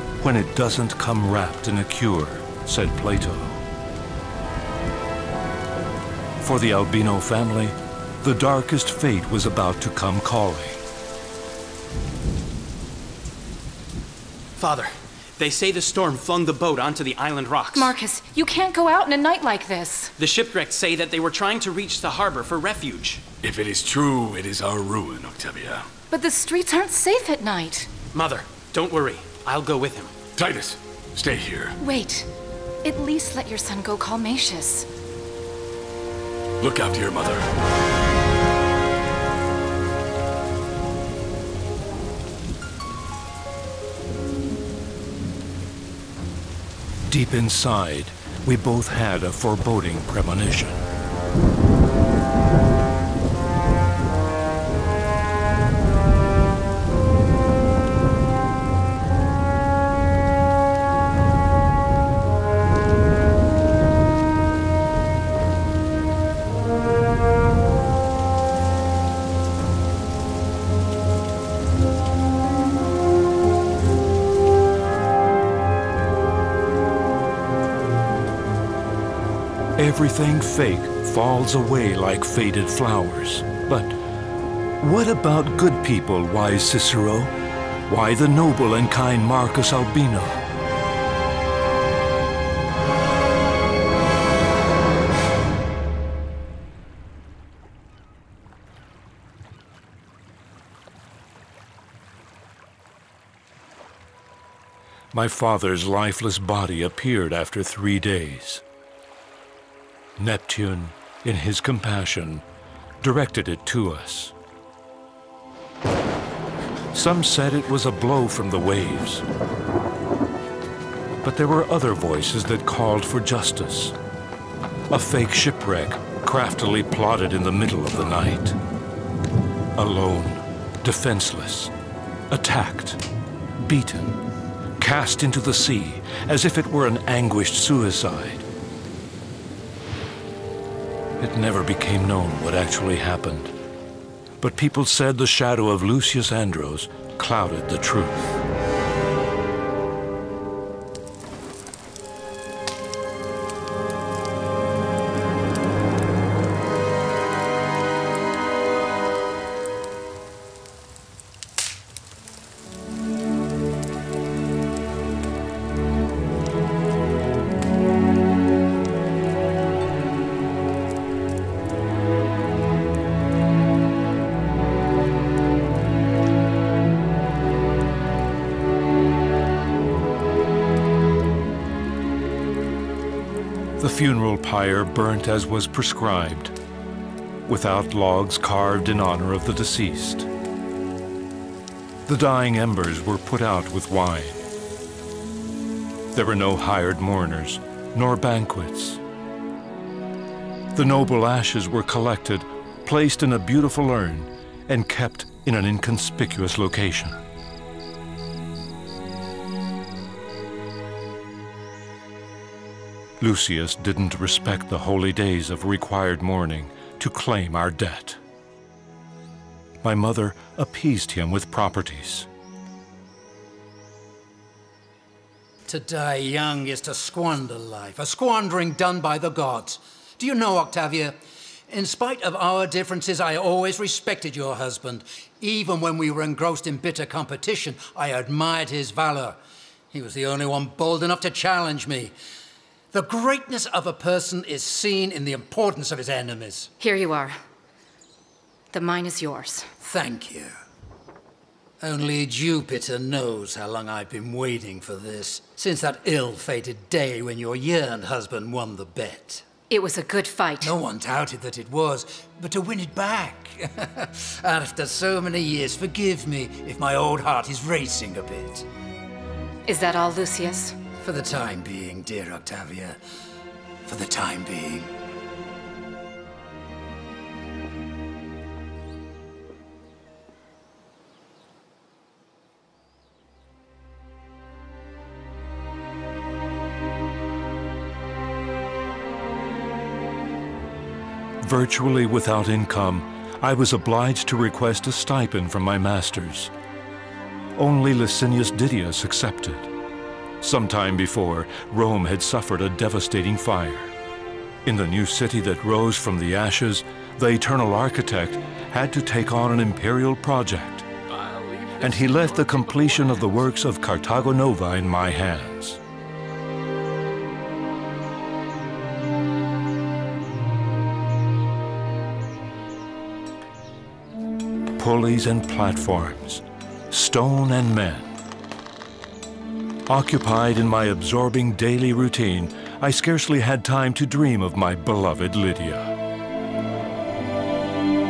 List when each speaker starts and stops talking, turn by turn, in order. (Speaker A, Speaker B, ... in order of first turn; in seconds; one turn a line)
Speaker A: 0.2-3.6
Speaker A: 6.4-10.8
Speaker B: 14.6-17.9
Speaker C: 17.7-20.1
Speaker B: 20.2-23.2
Speaker D: 23.4-25.9
Speaker C: 26.1-27.9
Speaker B: 28.1-30.1
Speaker D: 30.4-31.8
Speaker C: 31.8-32.3
Speaker C: 32.8-34.9
Speaker D: 36.6-37.5
Speaker A: 47.1-50.9
Speaker A: 79.8-84.0
Speaker A: 84.8-87.4
Speaker A: 87.9-90.4
Speaker A: 105.1-108.6
Speaker A: 110.2-112.5
Speaker A: 113.0-114.3
Speaker A: 116.9-119.2
Speaker A: 121.2-124.0
Speaker A: 124.9-128.6
Speaker A: 129.8-131.7
Speaker A: 132.3-133.0
Speaker A: 133.6-134.2
Speaker A: 134.8-138.4
Speaker A: 141.2-143.5
Speaker A: 144.4-148.4
Speaker A: 183.8-186.6
Speaker A: 187.4-190.3
Speaker A: 192.1-194.4
Speaker A: 196.1-199.0
Speaker A: 200.7-207.2
Speaker A: 213.2-218.2
Speaker A: 219.8-222.3
Speaker E: 225.7-231.2
Speaker E: 231.7-239.4
Speaker E: 239.9-242.1
Speaker E: 242.9-246.7
Speaker C: 246.8-247.4
Speaker C: 248.7-249.7
Speaker E: 249.8-250.6
Speaker E: 251.8-259.4
Speaker C: 259.7-260.7
Speaker E: 260.6-268.7
Speaker C: 269.7-270.7
Speaker E: 271.0-273.0
Speaker E: 273.9-274.9
Speaker A: 291.4-296.5
Speaker A: 297.6-299.7
Speaker A: 300.4-303.9
Speaker A: 304.6-310.9
Speaker D: 311.1-313.5
Speaker A: 311.8-315.8
Speaker A: 324.8-328.1
Speaker A: 329.9-335.9